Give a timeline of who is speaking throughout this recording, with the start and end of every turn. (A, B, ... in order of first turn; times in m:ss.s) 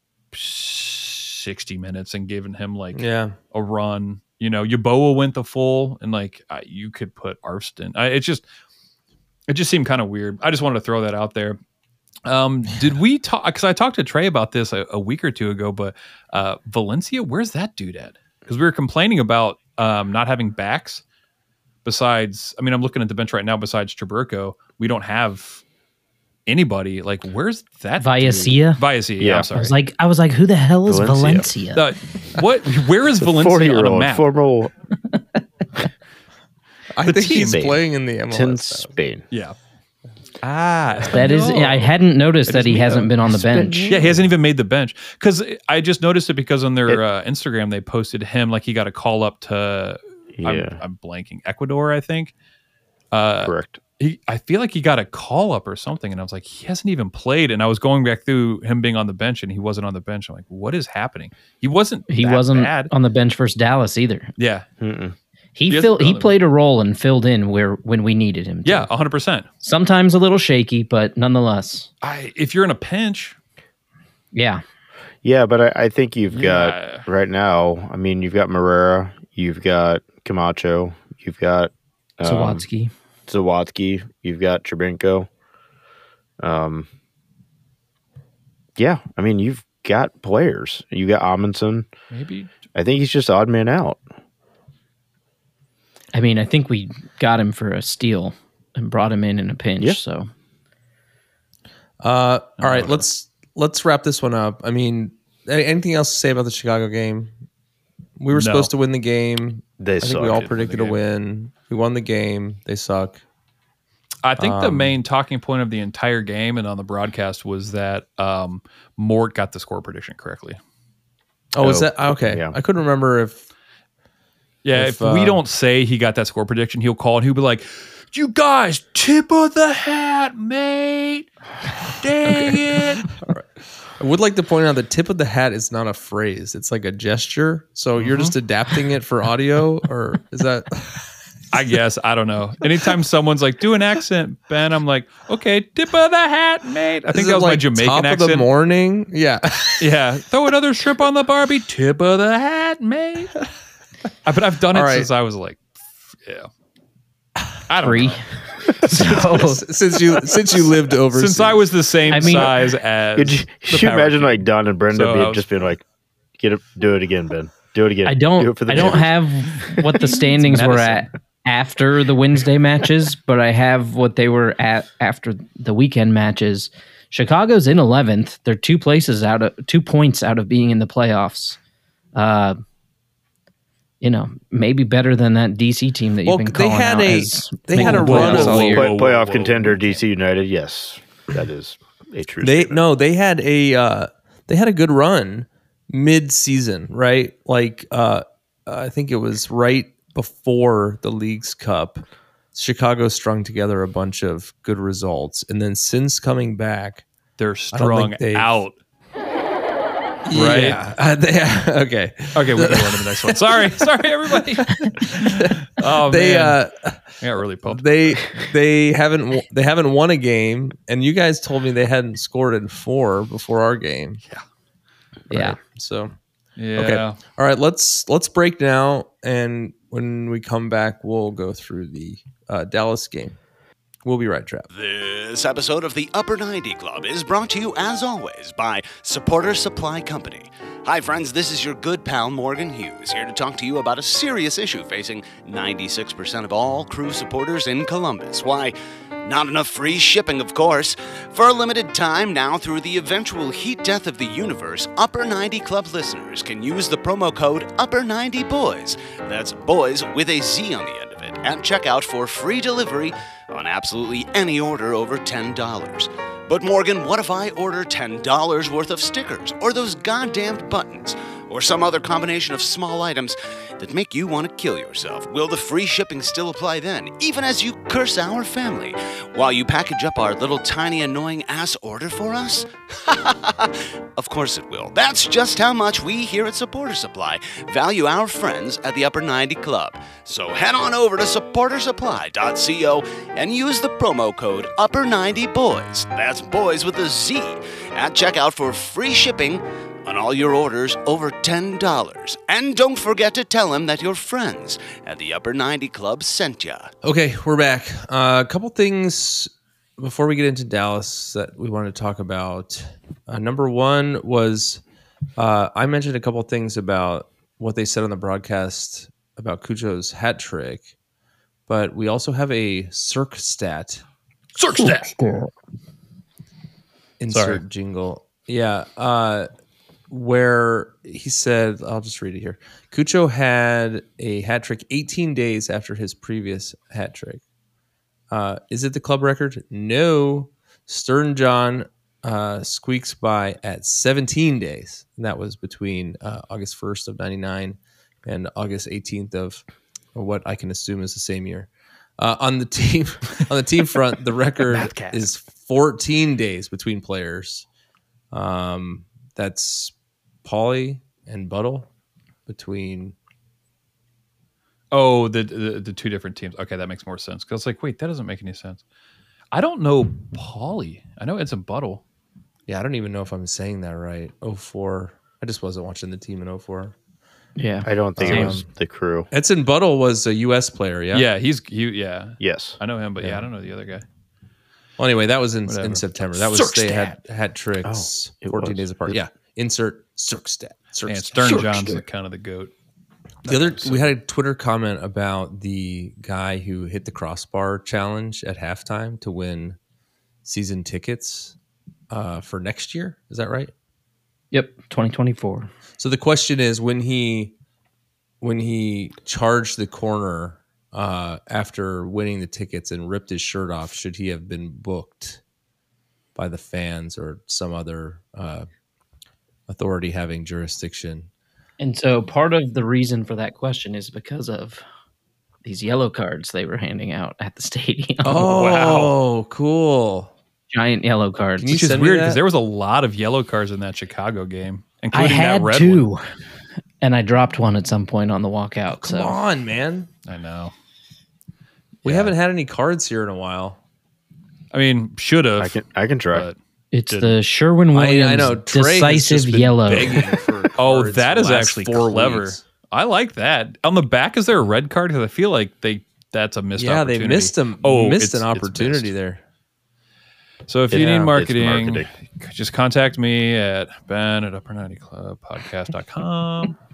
0:00.3-0:08.4 A
0:02.9-0:03.3 B
0:09.5-0:11.6 A
0:12.2-0:21.0 A
0:21.8-0:25.6 A
0:26.5-0:29.7 A
0:28.0-0:28.8 C
0:29.2-0:29.5 D
0:29.5-0:31.8 C
0:30.8-0:31.5 D
0:31.7-0:34.3 A
0:33.2-0:34.7 D
0:36.9-0:38.9 B
0:37.0-0:37.7 A
0:37.2-0:39.2 D
0:40.4-0:41.9 A
0:41.1-0:43.9 C
0:42.5-0:43.1 A
0:43.2-0:44.3 D
0:43.8-0:52.3 A
0:50.4-0:50.8 D
0:53.1-1:02.9 A
0:53.4-0:53.8 D
1:02.1-1:04.3 C
1:04.4-1:04.6 A
1:04.8-1:05.2 D
1:05.6-1:08.9 C
1:05.7-1:06.4 A
1:08.6-1:09.5 A
1:09.6-1:11.9 C
1:12.0-1:13.4 A
1:14.3-1:14.6 C
1:15.2-1:22.6 D
1:16.3-1:17.0 A
1:22.2-1:22.9 C
1:23.3-1:25.3 D
1:26.4-1:26.9 D
1:28.8-1:31.9 D
1:32.1-1:32.5 A
1:32.7-1:34.0 D
1:36.1-1:40.3 C
1:42.0-1:47.3 B
1:42.6-1:43.0 A
1:48.2-1:53.2 B
1:48.3-1:48.7 A
1:49.8-1:50.5 D
1:50.2-1:51.0 A
1:54.2-2:00.6 A
1:54.4-1:55.0 B
2:01.5-2:03.4 B
2:01.6-2:02.5 D
2:04.6-2:11.3 A
2:04.7-2:05.4 B
2:11.8-2:13.1 A
2:12.2-2:21.1 B
2:18.0-2:18.3 A
2:21.5-2:28.5 A
2:27.1-2:29.9 B
2:29.8-2:33.4 A
2:34.2-2:36.5 A
2:34.7-2:35.1 B
2:37.7-2:39.5 A
2:37.8-2:39.6 C
2:39.2-2:42.3 B
2:41.1-2:45.4 A
2:42.1-2:42.5 C
2:43.2-2:45.8 D
2:46.4-2:50.0 D
2:48.0-3:01.6 C
2:50.2-2:51.0 A
3:02.1-3:02.6 C
3:04.0-3:08.8 C
3:06.2-3:08.9 B
3:07.7-3:10.0 A
3:08.5-3:12.8 D
3:12.4-3:22.0 B
3:22.5-3:27.0 B
3:27.4-3:28.7 A
3:27.7-3:28.5 B
3:30.2-3:37.0 B
3:30.3-3:30.8 A
3:32.3-3:36.6 A
3:37.2-3:38.3 A
3:37.7-3:44.2 B
3:45.3-3:45.6 C
3:45.3-3:46.1 B
3:46.6-3:47.2 A
3:46.8-3:53.4 B
3:54.0-3:54.7 B
3:54.7-5:06.9 E
5:07.0-5:14.8 B
5:15.4-5:20.9 B
5:21.7-5:24.0 B
5:24.6-5:25.2 A
5:25.2-5:25.5 C
5:27.2-5:29.5 B
5:27.3-5:27.6 A
5:30.1-5:37.4 B
5:38.3-5:57.6 B
5:54.7-5:55.2 A
5:58.3-6:01.9 B
6:02.5-6:03.1 B
6:04.9-6:08.8 A
6:09.5-6:12.0 A
6:12.7-6:16.9 B
6:17.6-6:18.6 C
6:17.8-6:19.3 D
6:18.2-6:18.6 B
6:19.3-6:21.2 B
6:21.1-6:24.0 A
6:22.4-6:22.8 D
6:25.0-6:32.0 B
6:25.7-6:27.2 A
6:27.8-6:29.2 D
6:31.0-6:32.7 A
6:33.4-6:34.1 A
6:33.4-6:39.8 B
6:40.4-6:41.5 B
6:42.1-6:43.7 B
6:44.5-6:45.7 C
6:46.0-6:47.5 B
6:48.4-6:55.4 B
6:56.3-6:58.7 B
6:59.7-7:01.3 B
7:01.8-7:04.8 C
7:05.6-7:08.6 C
7:08.2-7:10.3 B
7:08.4-7:09.2 A
7:10.7-7:11.7 C
7:11.6-7:12.4 B
7:11.7-7:16.1 A
7:15.1-7:16.2 C
7:17.0-7:19.4 C
7:18.9-7:20.1 B
7:20.2-7:20.7 A
7:22.0-7:22.3 A
7:22.0-7:23.8 B
7:24.7-7:26.6 A
7:25.6-7:26.5 D
7:26.9-7:30.2 C
7:27.1-7:27.3 A
7:27.9-7:32.6 B
7:30.8-7:39.1 A
7:36.8-7:39.4 B
7:40.7-7:46.8 A
7:40.9-7:42.1 D